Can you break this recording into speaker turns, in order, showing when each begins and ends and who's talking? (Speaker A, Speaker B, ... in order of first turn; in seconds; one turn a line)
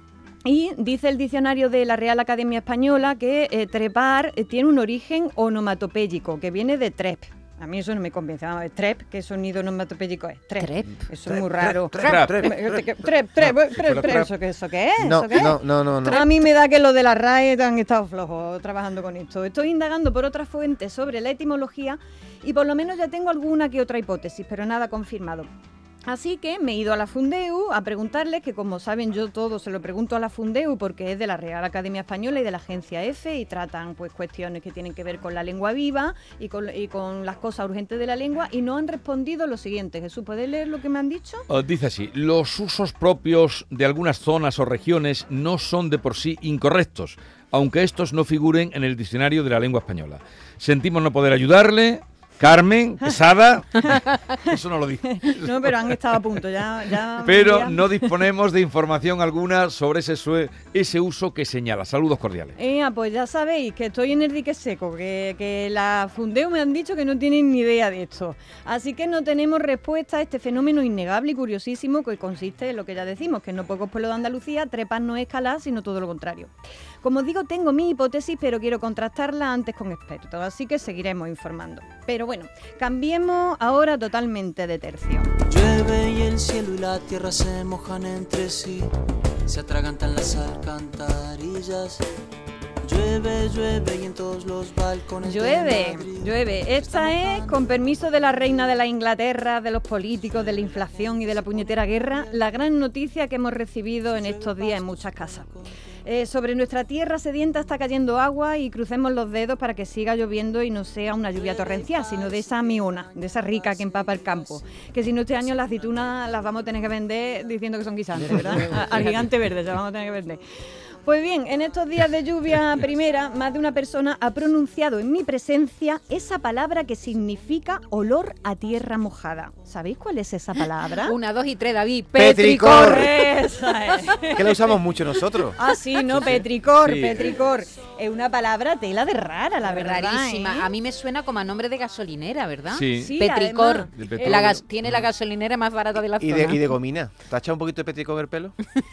Speaker A: 0.5-25.5
Speaker B: 10.6-11.0
Speaker C: 11.2-12.7
Speaker D: 12.0-12.7
Speaker D: 13.4-14.3
Speaker C: 15.0-16.3
Speaker A: 26.1-41.5
Speaker D: 41.5-56.2
Speaker A: 55.2-58.1
Speaker D: 57.2-62.5
Speaker A: 62.6-85.3
Speaker E: 85.5-88.9
Speaker E: 89.5-92.0
Speaker E: 92.8-98.7
Speaker A: 95.2-105.5
Speaker E: 100.2-102.6
Speaker E: 104.1-105.7
Speaker A: 106.0-120.4
Speaker E: 111.3-114.9
Speaker B: 118.3-119.2
Speaker A: 121.0-131.2
Speaker B: 131.0-133.1
Speaker C: 132.2-133.3
Speaker A: 132.8-134.8
Speaker C: 134.3-135.6
Speaker A: 135.6-140.7
Speaker D: 136.1-137.4
Speaker B: 139.6-146.8
Speaker D: 142.7-143.2
Speaker A: 142.9-144.6
Speaker D: 143.9-144.6
Speaker C: 146.2-148.6